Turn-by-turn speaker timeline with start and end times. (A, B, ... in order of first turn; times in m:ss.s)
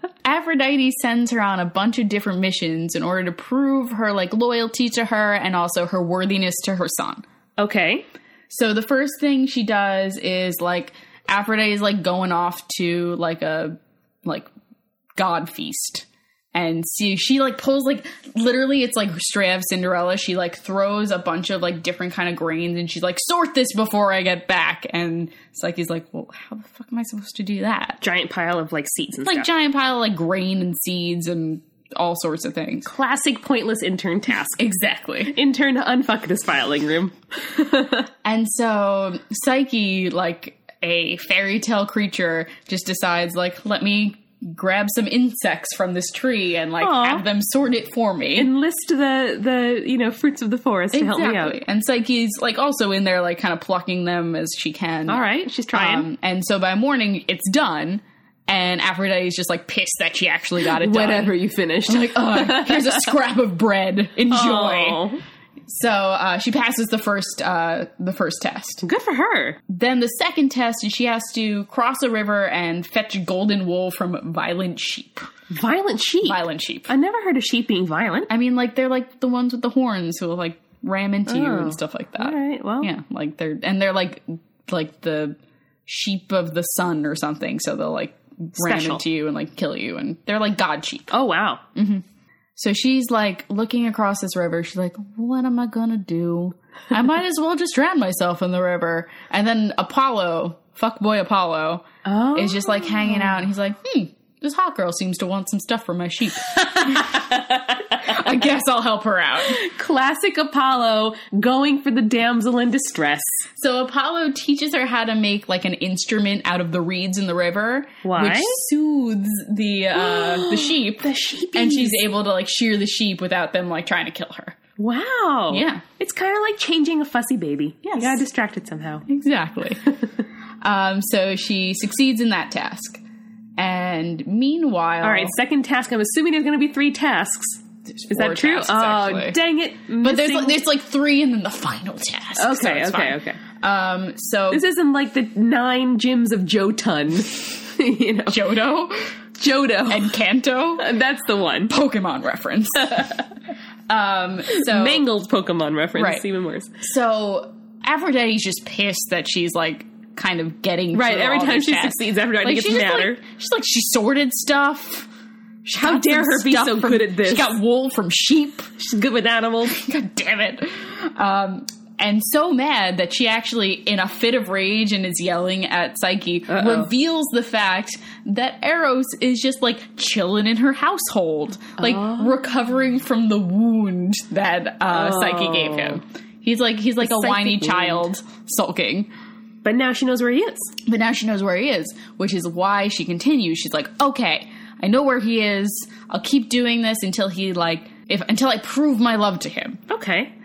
0:00.2-0:07.2 A
0:07.6-0:08.0 B
0:08.5-0:14.5 A
0:15.2-0:28.0 A
0:28.0-0:29.5 B
0:29.2-0:32.9 A
0:32.8-0:34.6 B
0:34.6-0:35.4 A
0:35.3-0:38.1 B
0:38.2-0:48.5 A
0:46.8-0:47.2 B
0:48.4-0:51.6 B
0:50.9-1:01.3 A
0:55.1-0:56.1 B
1:00.6-1:03.1 B
1:01.8-1:05.0 A
1:04.3-1:05.2 B
1:05.7-1:08.8 A
1:08.8-1:09.6 B
1:09.7-1:15.3 A
1:15.5-1:18.3 B
1:16.2-1:16.9 A
1:18.3-1:31.1 A
1:21.3-1:22.9 B
1:28.6-1:29.0 B
1:31.1-1:31.6 B
1:31.7-1:32.0 A
1:32.6-1:47.3 A
1:42.0-1:43.4 B
1:46.6-1:48.2 B
1:47.9-1:49.6 A
1:49.4-1:53.4 B
1:53.6-2:04.6 A
1:58.0-1:58.6 B
2:00.0-2:02.0 B
2:04.8-2:09.0 B
2:05.5-2:05.8 A
2:07.8-2:08.2 A
2:09.1-2:09.8 A
2:10.6-2:13.0 A
2:13.6-2:15.3 A
2:15.0-2:20.6 B
2:17.9-2:19.4 A
2:20.0-2:24.6 A
2:22.4-2:23.4 B
2:24.5-2:28.5 B
2:28.3-2:29.1 A
2:29.4-2:30.1 B
2:29.8-2:30.9 A
2:30.8-2:31.7 B
2:31.7-2:33.2 A
2:33.9-2:35.0 A
2:34.5-2:36.7 B
2:35.9-2:36.2 A
2:36.8-2:45.1 A
2:40.9-2:43.2 B
2:45.6-2:48.7 A
2:45.8-2:47.6 B
2:48.8-2:49.8 B
2:49.7-3:09.1 A
2:56.5-2:56.9 B
3:01.8-3:02.3 B
3:04.9-3:06.0 B
3:07.0-3:08.1 B
3:09.6-3:10.7 B
3:10.8-3:19.8 A
3:19.9-3:20.3 B